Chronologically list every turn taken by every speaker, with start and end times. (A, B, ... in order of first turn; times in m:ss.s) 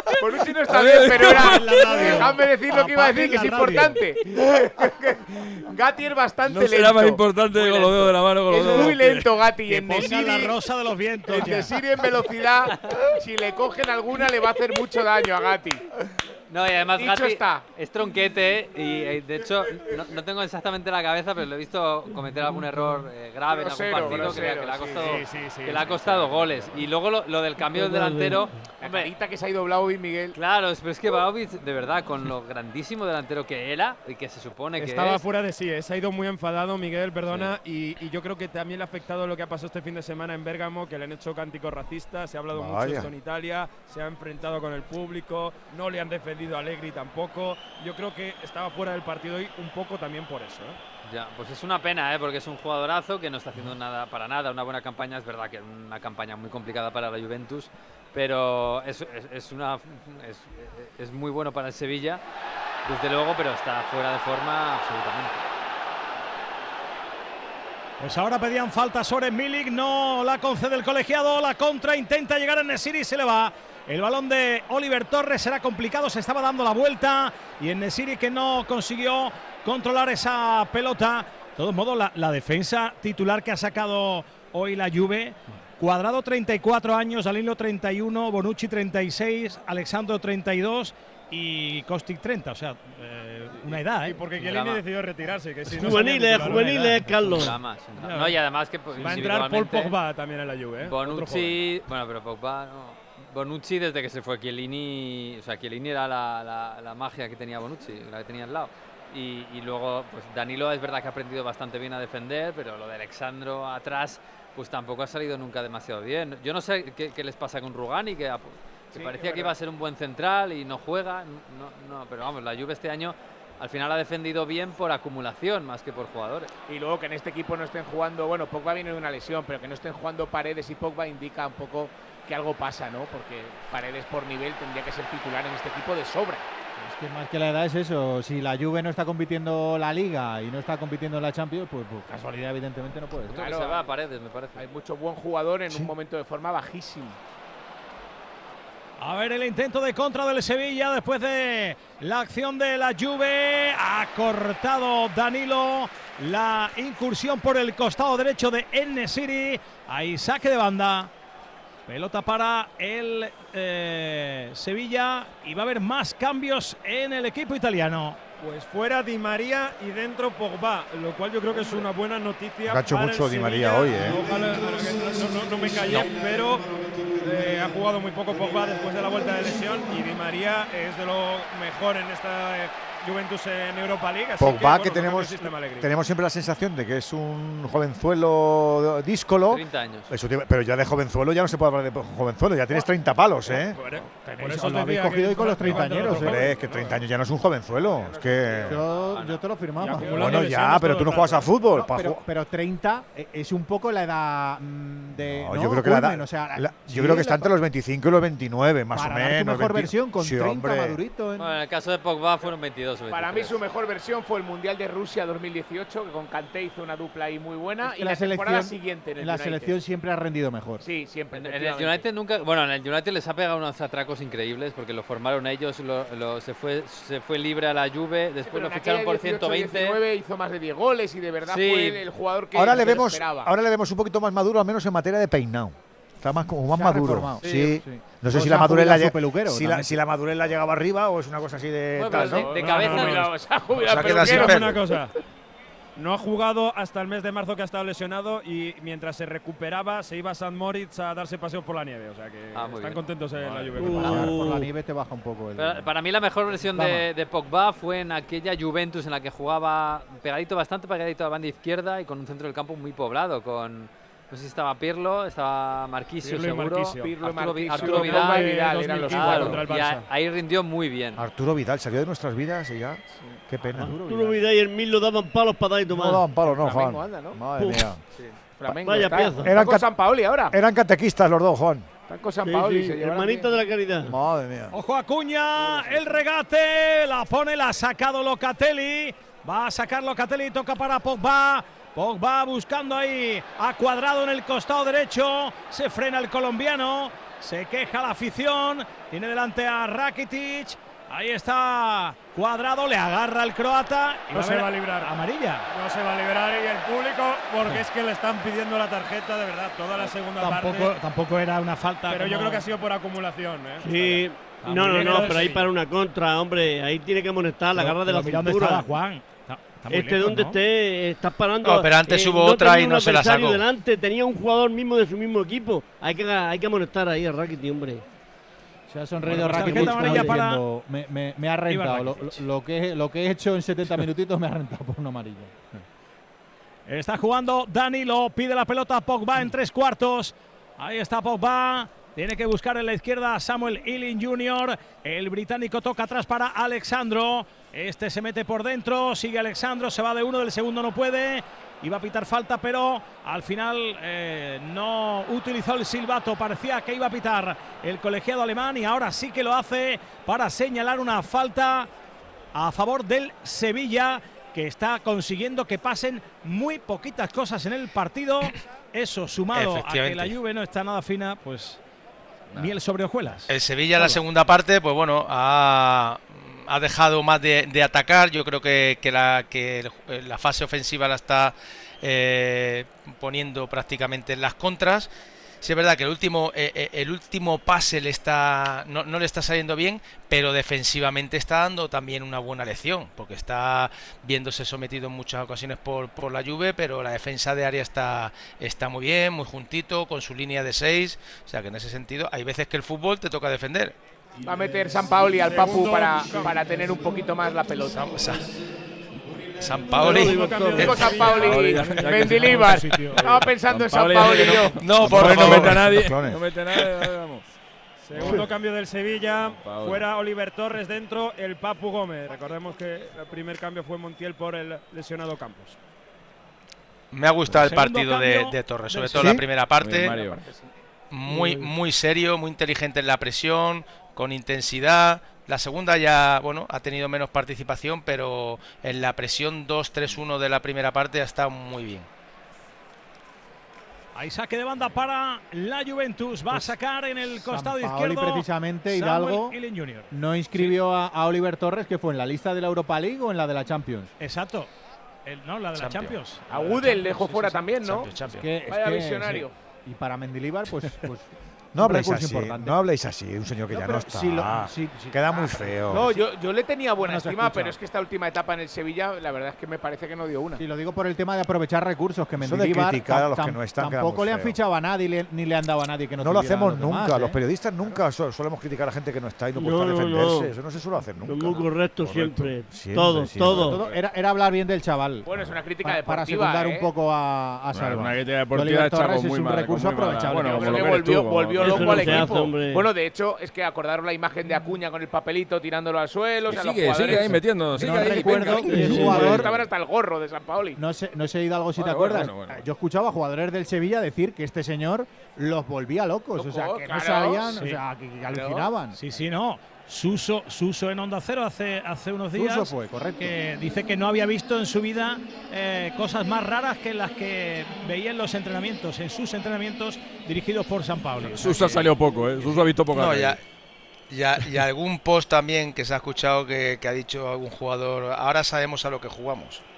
0:00.2-0:07.2 A
0:00.7-0:02.3 B
0:01.2-0:04.0 C
0:06.4-0:09.3 B
0:07.6-0:08.1 D
0:08.5-0:10.6 A
0:09.8-0:11.7 C
0:11.3-0:15.8 A
0:12.7-0:13.1 D
0:16.5-0:29.1 D
0:17.0-0:17.7 A
0:23.5-0:25.2 A
0:25.0-0:26.9 E
0:27.7-0:28.4 F
0:28.8-0:30.4 A
0:30.3-0:35.2 D
0:34.8-0:50.8 E
0:37.3-0:37.5 D
0:42.5-0:43.1 G
0:51.1-1:02.2 D
1:02.8-1:05.4 D
1:08.0-1:34.2 C
1:33.6-1:36.8 E
1:34.4-1:34.8 D
1:35.7-1:37.6 F
1:35.8-1:37.3 C
1:36.8-1:37.3 H
1:37.3-1:40.0 D
1:38.0-1:38.3 C
1:38.9-1:41.6 E
1:40.8-2:06.5 D
1:58.9-1:59.4 A
1:59.2-1:59.5 E
2:06.7-2:16.4 A
2:16.8-2:23.5 H
2:23.3-2:23.9 A
2:23.3-2:24.6 D
2:24.6-2:27.2 A
2:29.0-2:41.1 C
2:41.9-2:48.2 C
2:48.4-2:56.6 E
2:52.7-2:54.2 G
2:54.0-3:00.0 H
2:57.2-3:05.9 E
3:04.4-3:13.8 G
3:09.5-3:10.1 D
3:13.5-3:17.0 E
3:14.2-3:16.6 H
3:15.6-3:18.8 G
3:17.7-3:19.2 A
3:18.6-3:20.6 H
3:19.1-3:19.4 D
3:19.8-3:21.5 E
3:20.1-3:22.2 G
3:21.7-3:27.5 H
3:25.1-3:31.0 G
3:28.9-3:31.5 H
3:31.4-3:33.6 D
3:33.1-3:39.8 A
3:37.8-3:40.8 H
3:40.8-3:42.1 A
3:41.3-3:50.0 D
3:48.5-3:53.5 A
3:51.4-3:52.0 D
3:52.5-4:02.5 G
3:56.7-3:59.9 H
3:57.4-3:57.8 D
4:02.0-4:03.3 D
4:02.1-4:04.9 A
4:02.4-4:03.3 E
4:03.8-4:04.8 I
4:04.0-4:05.1 E
4:06.0-4:14.4 E
4:12.5-4:13.1 D
4:13.4-4:13.8 B
4:13.8-4:15.9 H
4:13.8-4:14.7 F
4:13.9-4:14.3 D
4:15.6-4:31.3 D
4:16.7-4:17.1 H
4:26.2-4:27.1 E
4:27.0-4:29.6 A
4:27.7-4:30.1 E
4:31.2-4:34.0 G
4:33.6-4:34.4 H
4:33.8-4:36.2 F
4:35.9-4:38.0 G
4:36.4-4:37.5 A
4:37.6-4:37.9 F
4:38.6-4:40.6 A
4:38.8-4:39.6 F
4:39.0-4:41.9 G
4:42.1-4:43.5 A
4:42.4-4:44.1 F
4:44.0-4:44.7 G
4:44.7-5:05.7 C
4:45.6-4:46.2 A
5:04.3-5:05.1 E
5:05.7-5:10.9 E
5:10.4-5:12.6 C
5:12.1-5:14.2 E
5:13.8-5:18.9 F
5:14.6-5:15.5 C
5:14.8-5:15.7 E
5:17.7-5:20.6 C
5:19.9-5:28.0 F
5:21.6-5:23.6 I
5:28.9-5:35.8 H
5:29.2-5:30.6 C
5:31.7-5:32.4 C
5:36.9-6:01.9 C
6:02.5-6:11.8 C
6:09.5-6:10.4 I
6:12.5-6:12.8 B
6:12.6-6:14.2 C
6:13.5-6:25.1 I
6:25.6-6:43.9 I
6:44.4-6:48.3 A
6:45.4-6:46.8 E
6:47.9-6:48.4 I
6:49.6-6:50.9 I
6:49.9-6:51.8 E
6:50.1-6:50.8 F
6:50.2-6:51.0 C
6:50.7-6:54.8 A
6:51.2-6:57.4 B
6:52.4-6:53.2 C
6:54.8-6:55.9 I
6:55.0-6:56.4 G
6:58.0-7:05.8 E
6:58.2-6:58.5 B
6:59.6-7:00.1 B
7:07.1-7:10.2 I
7:07.5-7:09.4 C
7:09.2-7:10.5 B
7:11.1-7:22.1 I
7:24.2-7:30.7 C
7:27.4-7:29.6 H
7:30.1-7:34.1 H
7:34.2-7:34.7 C
7:35.2-7:37.6 C
7:35.8-7:36.2 I
7:36.5-7:39.5 A
7:37.8-7:38.5 I
7:38.2-7:42.8 H
7:41.7-7:46.1 G
7:43.7-7:46.2 H
7:45.9-7:50.6 A
7:47.0-7:47.8 H
7:50.6-7:58.0 H
7:52.4-7:54.6 G
7:56.2-8:03.8 G
7:59.6-8:00.5 F
8:01.2-8:03.8 F
8:03.5-8:05.3 H
8:05.2-8:06.9 A
8:05.8-8:11.0 H
8:07.7-8:12.5 B
8:10.3-8:20.8 A
8:11.6-8:12.8 F
8:16.5-8:19.5 B
8:17.8-8:19.5 H
8:18.7-8:19.4 F
8:20.8-8:29.0 H
8:21.8-8:22.6 B
8:26.4-8:27.6 A
8:27.6-8:27.8 C
8:28.3-8:29.2 A
8:28.9-8:41.7 C
8:32.3-8:33.4 H
8:41.4-8:43.4 B
8:41.4-8:41.9 I
8:42.9-8:43.4 I
8:44.1-8:49.6 I